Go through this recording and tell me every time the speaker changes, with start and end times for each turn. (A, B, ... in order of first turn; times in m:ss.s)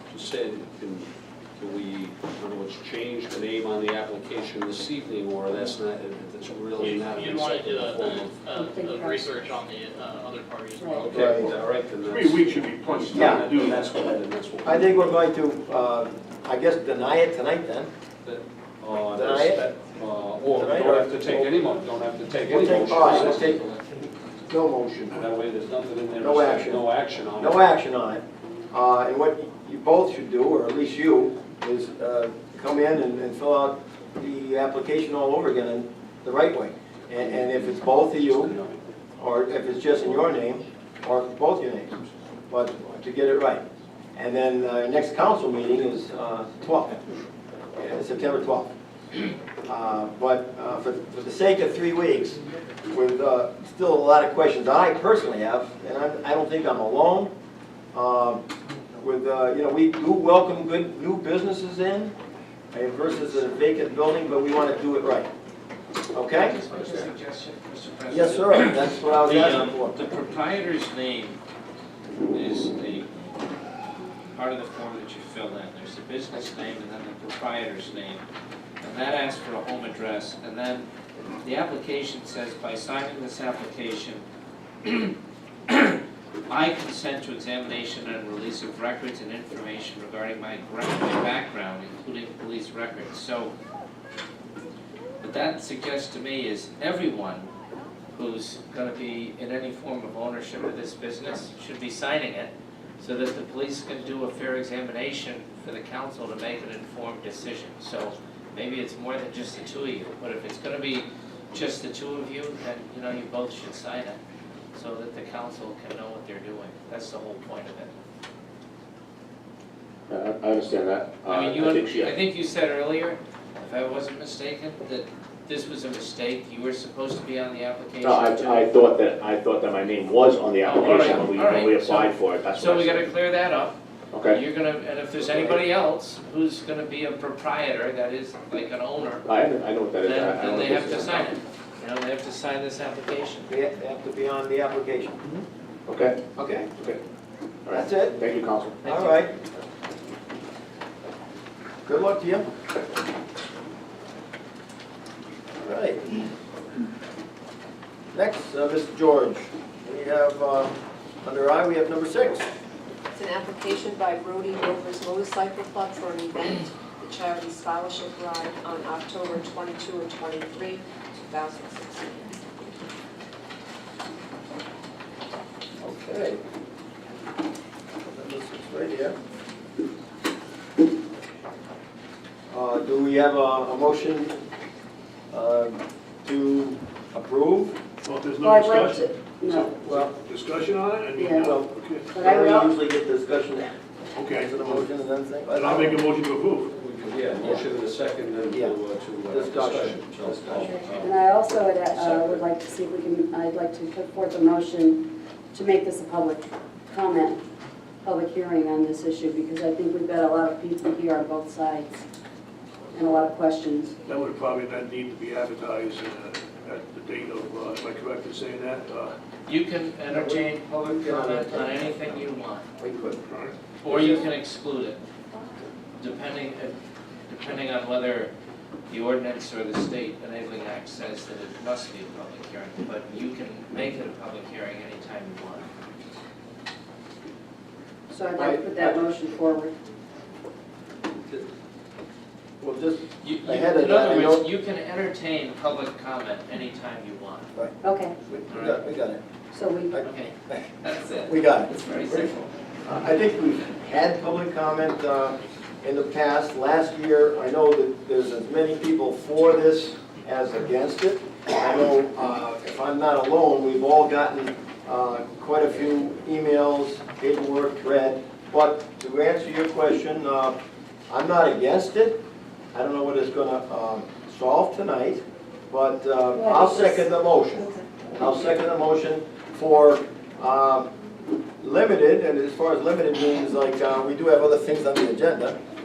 0:00.1-0:08.5 A
0:06.8-0:11.0 B
0:08.5-0:09.3 C
0:10.8-0:11.1 C
0:10.9-0:15.0 A
0:11.1-0:11.5 D
0:12.1-0:14.0 E
0:13.1-0:13.4 D
0:14.6-0:17.9 D
0:18.2-0:23.9 A
0:19.1-0:19.6 D
0:20.5-0:21.6 D
0:22.5-0:23.6 D
0:24.5-0:25.1 D
0:25.1-0:27.7 A
0:26.2-0:26.9 D
0:27.4-0:38.5 D
0:37.2-0:38.8 A
0:39.2-0:41.9 D
0:42.5-0:43.6 D
0:44.1-0:47.0 D
0:47.8-0:48.7 D
0:49.6-0:57.3 D
0:57.9-0:58.4 D
0:59.0-1:02.1 D
1:02.7-1:05.3 D
1:06.1-1:07.1 D
1:06.3-1:11.4 F
1:08.1-1:10.0 D
1:12.3-1:13.3 F
1:14.3-1:18.2 F
1:18.8-1:20.9 F
1:21.4-1:24.2 F
1:24.8-1:25.2 F
1:25.7-1:33.5 F
1:35.2-1:37.5 F
1:38.1-1:54.2 F
1:54.7-1:57.9 F
2:00.1-2:02.2 G
2:01.3-2:08.8 F
2:08.0-2:13.1 G
2:10.6-2:19.3 F
2:14.1-2:14.4 G
2:15.2-2:15.6 D
2:19.2-2:21.3 G
2:20.0-2:23.5 F
2:23.5-2:25.3 D
2:25.9-2:26.2 G
2:26.4-2:26.7 D
2:27.6-2:28.8 G
2:27.7-2:28.2 D
2:28.8-2:29.2 F
2:28.8-2:29.3 D
2:31.8-2:32.5 D
2:35.6-2:36.0 D
2:38.1-2:42.5 D
2:43.1-2:52.4 H
2:55.8-2:56.4 D
2:58.1-2:59.2 D
3:02.5-3:04.4 D
3:05.3-3:07.8 D
3:08.0-3:12.1 E
3:08.4-3:09.8 C
3:09.8-3:10.1 D
3:11.1-3:12.7 C
3:11.3-3:13.8 D
3:14.2-3:14.8 E
3:14.3-3:16.0 D
3:15.5-3:16.7 E
3:16.7-3:22.5 A
3:18.5-3:20.9 D
3:20.6-3:27.4 C
3:28.0-3:32.0 C
3:32.9-3:33.9 C
3:34.1-3:39.1 E
3:39.4-3:42.7 F
3:40.1-3:42.2 D
3:42.8-3:43.2 D
3:43.3-3:43.5 E
3:43.8-3:45.0 F
3:43.8-3:44.2 D
3:46.0-3:46.8 F
3:47.3-3:48.3 F
3:48.9-3:55.7 F
3:58.1-3:59.7 C
3:58.3-3:59.0 D
4:02.6-4:04.5 D
4:03.2-4:07.5 F
4:07.5-4:09.2 D
4:07.8-4:08.2 C
4:08.5-4:08.8 F
4:09.5-4:10.0 C
4:09.9-4:10.7 D
4:10.0-4:12.5 F
4:11.2-4:12.3 D
4:12.8-4:30.6 D
4:31.1-4:32.2 D
4:32.7-4:40.9 D
4:36.3-4:38.0 C
4:41.6-4:45.6 D